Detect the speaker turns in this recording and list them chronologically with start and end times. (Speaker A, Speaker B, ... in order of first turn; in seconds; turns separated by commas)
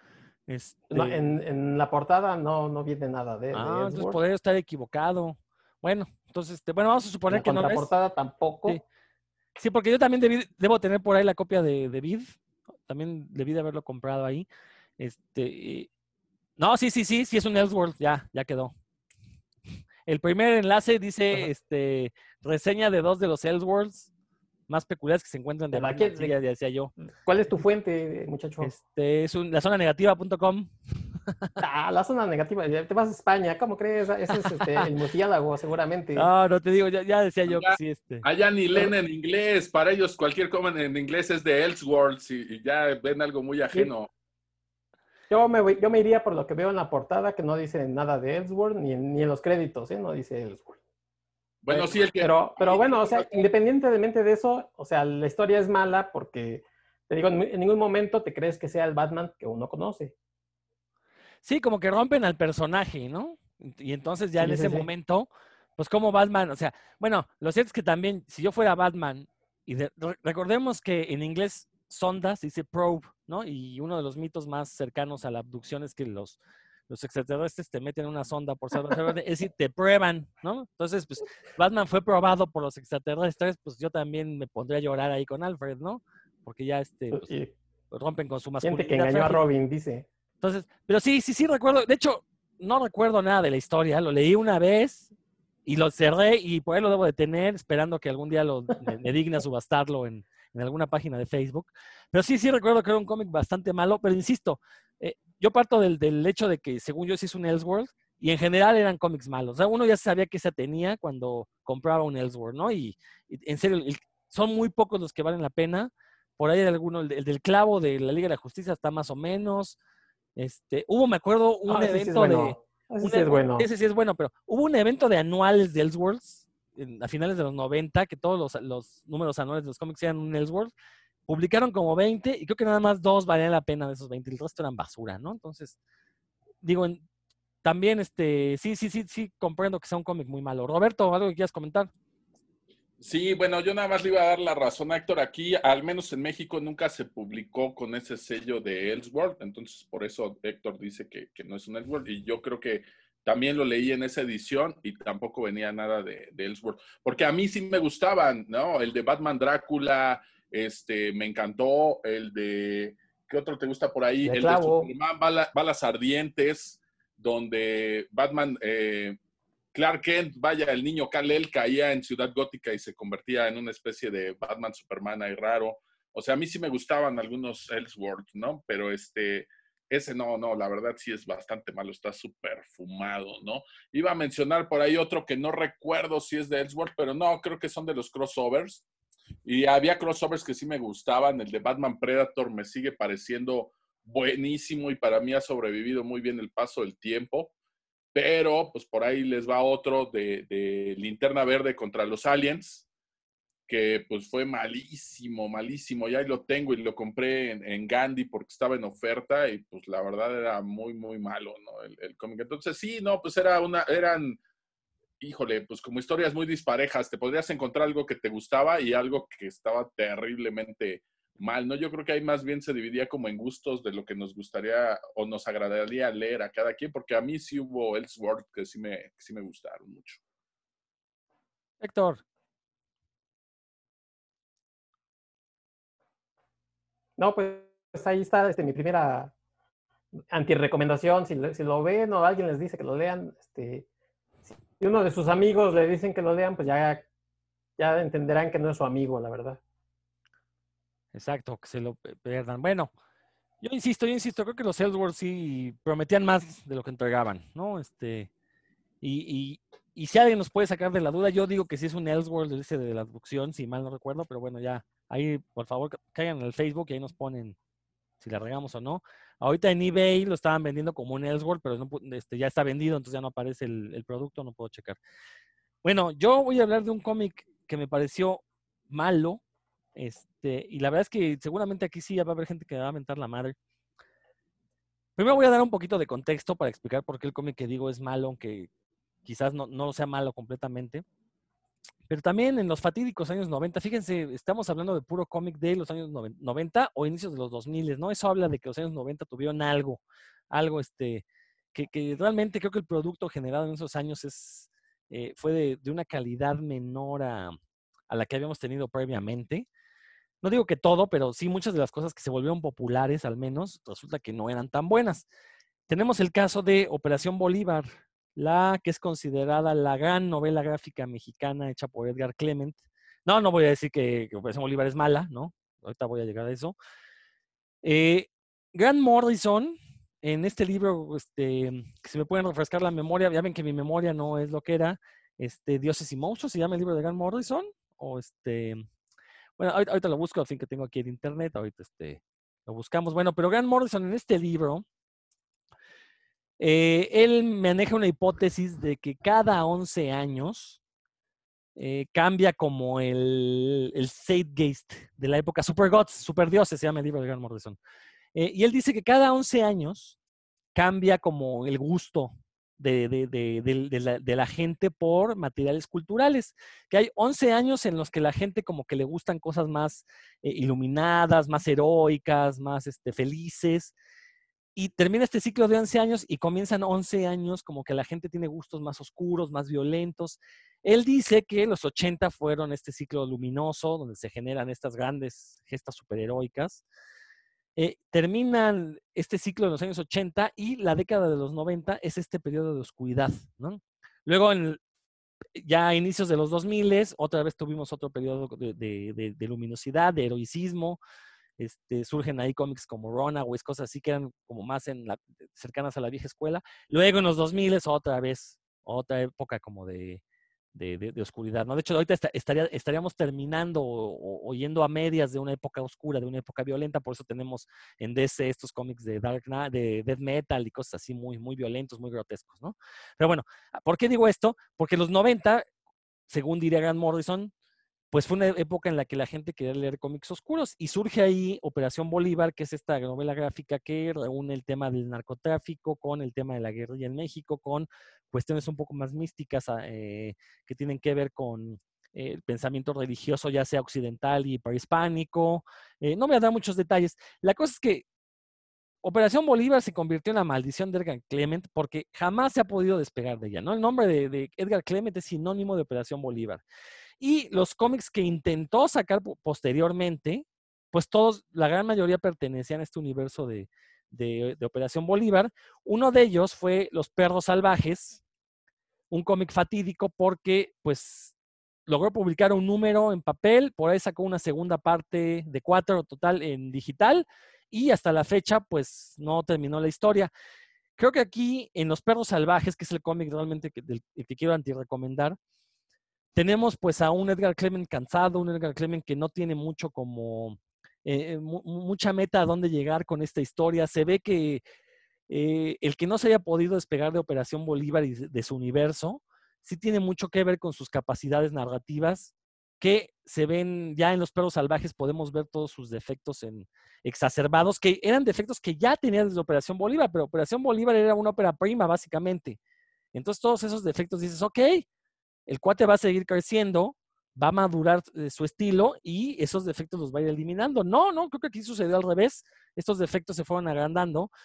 Speaker A: 0.5-1.3, Speaker B: 0.9-4.2, Speaker A: 3.5-7.9, Speaker B: 7.3-8.8, Speaker A: 9.6-14.5, Speaker A: 15.0-15.9, Speaker A: 16.6-18.7, Speaker A: 20.1-24.1, Speaker A: 24.7-26.9, Speaker B: 25.7-26.3, Speaker B: 27.1-28.7, Speaker A: 28.6-30.7, Speaker B: 31.6-36.3, Speaker A: 34.5-34.9, Speaker A: 36.1-38.3, Speaker C: 37.5-44.1, Speaker B: 45.3-50.8, Speaker C: 51.6-53.3, Speaker B: 51.7-60.1, Speaker A: 61.4-76.4, Speaker B: 64.4-64.9, Speaker A: 76.9-87.3, Speaker B: 87.1-87.5, Speaker A: 87.9-89.4, Speaker B: 88.6-90.1, Speaker A: 90.4-95.1, Speaker A: 95.7-119.8, Speaker A: 120.4-130.7, Speaker B: 121.7-123.7, Speaker A: 131.3-135.8, Speaker A: 136.6-137.0, Speaker A: 137.6-141.9, Speaker C: 143.0-169.2, Speaker B: 164.2-164.9, Speaker C: 169.7-188.8, Speaker C: 189.4-197.5, Speaker C: 198.1-202.9, Speaker C: 203.7-214.4, Speaker C: 215.2-230.2, Speaker A: 231.8-232.2, Speaker B: 237.2-239.3, Speaker B: 240.3-243.9, Speaker B: 244.7-247.1, Speaker B: 247.8-249.6, Speaker A: 251.1-252.9, Speaker A: 253.6-258.3, Speaker A: 259.0-267.6, Speaker A: 268.2-275.0, Speaker A: 275.8-279.4, Speaker A: 279.9-283.6, Speaker A: 285.2-288.7, Speaker A: 289.2-291.0, Speaker A: 292.1-307.6, Speaker A: 308.1-309.7, Speaker A: 310.4-315.3, Speaker A: 315.9-326.8, Speaker A: 327.8-338.8, Speaker A: 339.6-344.9, Speaker A: 346.6-350.8, Speaker A: 351.8-357.8, Speaker A: 358.4-360.2, Speaker A: 360.7-373.9, Speaker A: 374.8-386.8, Speaker A: 387.8-394.8, Speaker A: 395.6-401.0, Speaker A: 401.6-410.2, Speaker A: 410.8-425.7, Speaker A: 426.3-427.5, Speaker A: 428.1-448.1, Speaker A: 449.0-456.6, Speaker A: 457.2-468.2, Speaker A: 469.1-471.3, Speaker A: 471.9-480.3, Speaker A: 481.0-485.4, Speaker A: 486.3-494.6, Speaker A: 495.3-512.6, Speaker A: 513.1-514.9, Speaker A: 515.5-524.3